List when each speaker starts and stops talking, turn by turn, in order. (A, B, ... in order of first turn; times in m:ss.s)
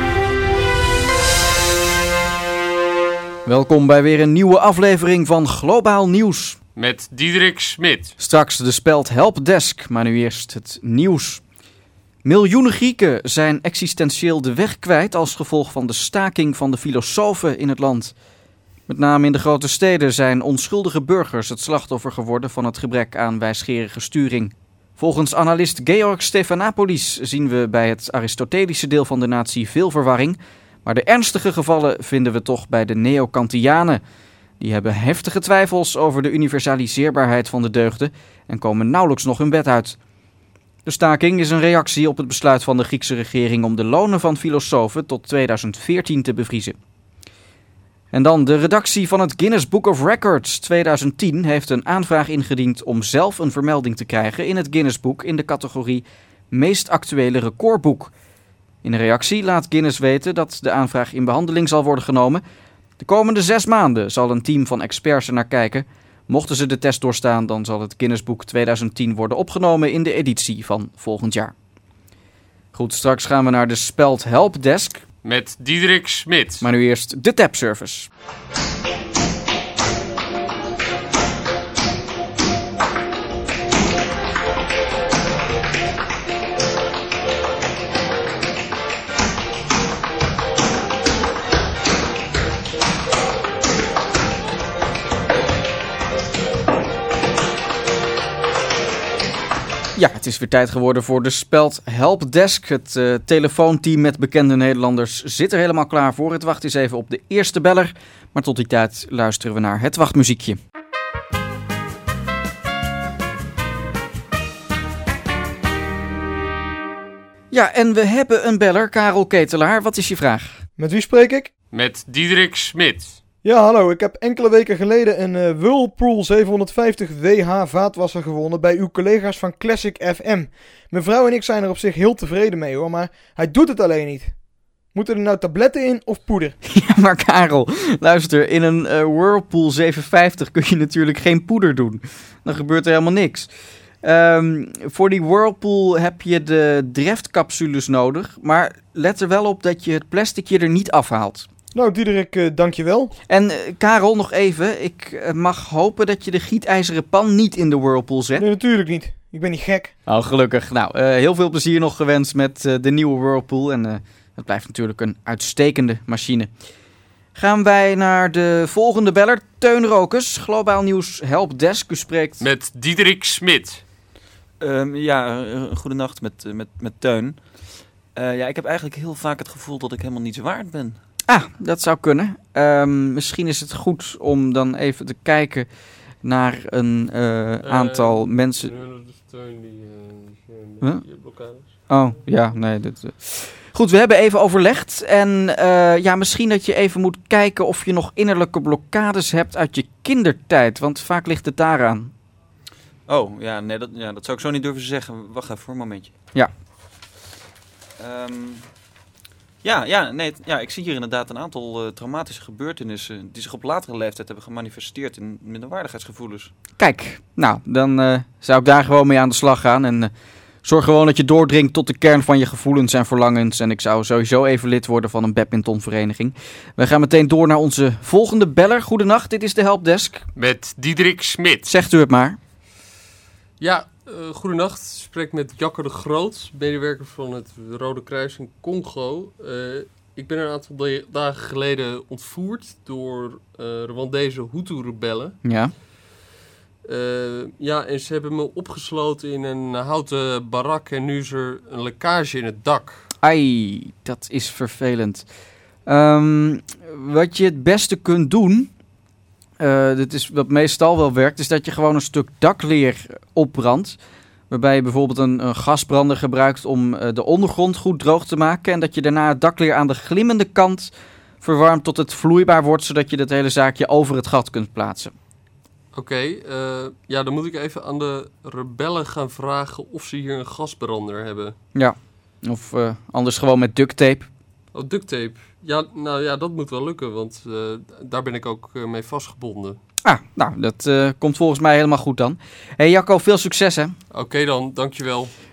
0:03.5-0:06.6 A
0:06.8-0:08.2 B
0:08.2-0:11.4 A
0:12.2-0:18.1 A
0:18.9-0:34.0 A
0:34.6-0:40.0 A
0:40.9-0:46.8 A
0:48.1-0:58.1 A
0:58.8-1:02.4 A
1:03.0-1:11.5 A
1:12.7-1:15.0 A
1:15.2-1:16.7 B
1:16.6-1:18.1 A
1:40.0-1:50.6 A
1:57.5-2:00.6 A
2:00.8-2:01.5 C
2:01.7-2:03.2 B
2:03.4-2:14.3 C
2:14.9-2:16.6 C
2:16.6-2:23.5 A
2:24.0-2:31.5 A
2:31.7-2:33.1 C
2:33.3-2:38.4 A
2:38.4-2:39.9 C
2:40.1-2:46.5 A
2:47.4-2:52.5 A
2:52.4-2:53.8 B
2:54.6-2:57.4 D
2:58.2-3:01.0 D
3:01.3-3:05.7 A
3:06.2-3:08.7 A
3:07.6-3:11.8 B
3:10.8-3:11.1 A
3:11.8-3:22.1 A
3:23.1-3:26.1 D
3:28.0-3:28.7 D
3:29.6-3:36.5 D
3:36.8-3:40.1 A
3:40.6-3:50.2 A
3:50.4-3:51.7 B
3:51.7-3:52.4 A
3:53.6-4:05.4 B
4:05.4-4:05.7 A
4:06.8-4:13.0 B
4:13.2-4:15.3 A
4:15.9-4:18.7 A
4:19.6-4:24.0 A
4:24.5-4:35.1 A
4:35.9-4:41.6 B
4:41.8-4:44.3 A
4:44.7-4:49.8 B
4:50.0-4:54.0 A
4:54.1-4:55.3 B